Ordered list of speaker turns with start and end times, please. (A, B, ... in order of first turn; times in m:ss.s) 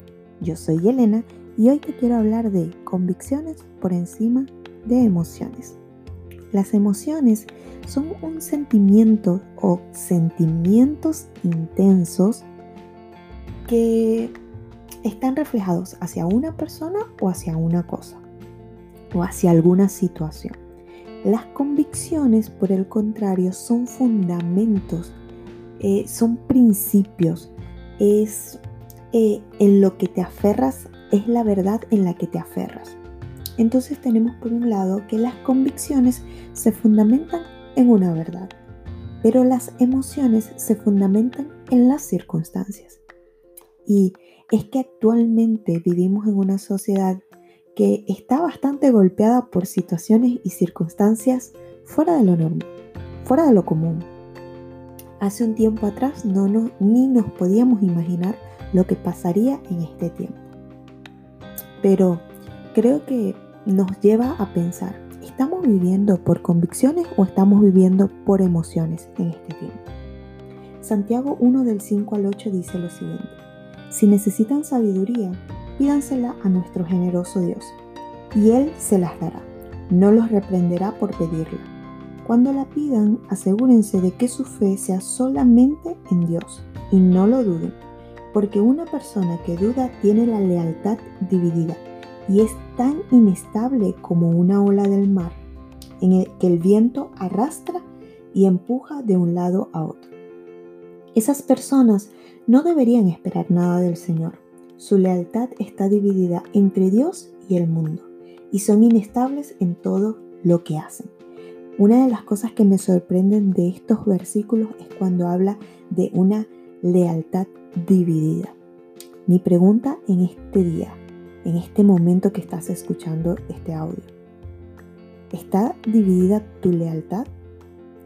0:00.4-0:05.8 A
0:06.5-0:12.5 A
0:13.7-0:14.4 A
0:15.0-0:18.2 A
0:19.1-0:20.6 A
0:21.2-0:25.2 A
0:25.8-0:28.6 A
0:29.1-0:33.0 A
0:33.6-0:38.5 A
0:39.2-0:43.0 A
0:43.8-0:47.2 A
0:47.8-0:52.7 A
0:53.2-0:54.1 A
0:55.2-1:00.5 A
1:01.8-1:09.8 A
1:10.8-1:17.8 A
1:18.3-1:21.7 A
1:22.2-1:27.8 A
1:28.3-1:35.4 A
1:36.0-1:40.1 A
1:41.1-1:51.1 A
1:51.8-1:58.6 A
1:59.3-2:04.1 A
2:05.3-2:07.3 A